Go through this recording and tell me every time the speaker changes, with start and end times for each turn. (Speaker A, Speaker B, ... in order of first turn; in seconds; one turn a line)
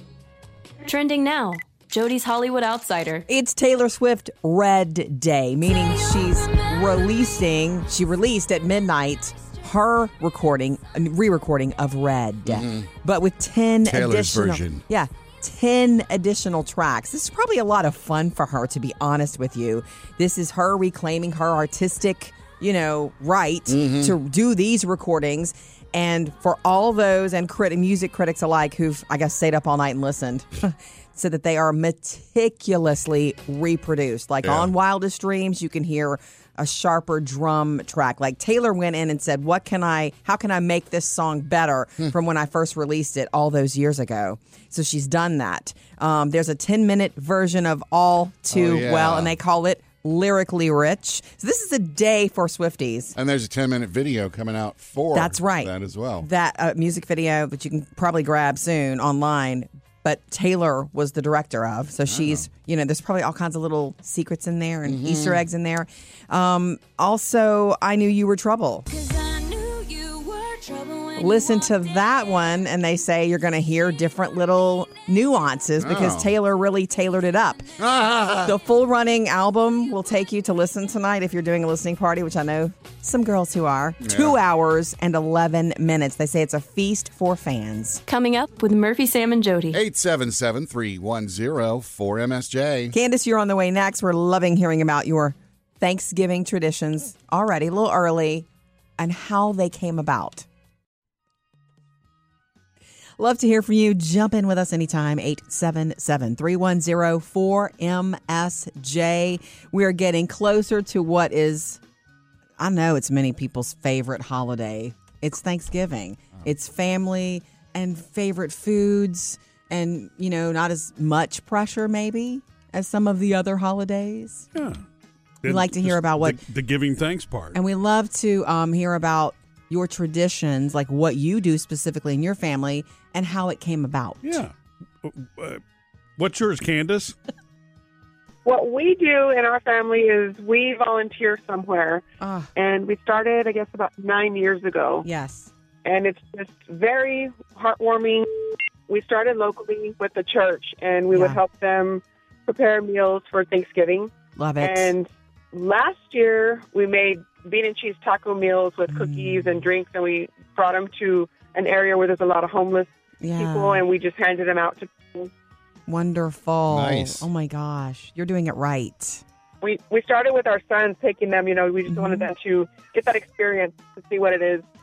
Speaker A: 0.9-3.3
Speaker B: 3.3-53.1
Speaker C: 12.5-12.9
Speaker C: 13.8-14.8
Speaker C: 23.7-24.1
Speaker C: 34.4-34.7
Speaker C: 48.5-49.4
Speaker C: 53.1-56.3
Speaker B: 55.1-68.9
Speaker C: 62.1-62.5
Speaker C: 64.8-65.5
Speaker A: 69.0-71.1
Speaker B: 71.2-77.6
Speaker C: 75.8-76.3
Speaker C: 77.8-78.5
Speaker B: 78.4-88.0
Speaker C: 84.0-84.4
Speaker A: 88.1-89.8
Speaker C: 89.7-93.0
Speaker B: 92.9-98.5
Speaker B: 99.0-100.5
Speaker B: 103.2-111.8
Speaker B: 112.6-124.5
Speaker D: 124.5-124.8
Speaker D: 125.4-127.6
Speaker B: 125.5-126.4
Speaker B: 127.5-134.4
Speaker D: 134.2-135.6
Speaker D: 136.2-137.2
Speaker E: 138.4-142.1
Speaker B: 142.2-142.5
Speaker E: 142.6-145.1
Speaker B: 145.1-145.5
Speaker E: 145.8-148.3
Speaker E: 148.9-165.3
Speaker B: 151.1-151.4
Speaker B: 154.4-154.9
Speaker B: 158.9-159.6
Speaker B: 163.2-163.8
Speaker B: 165.9-169.2
Speaker C: 166.7-167.3
Speaker E: 169.6-174.6
Speaker B: 171.9-172.3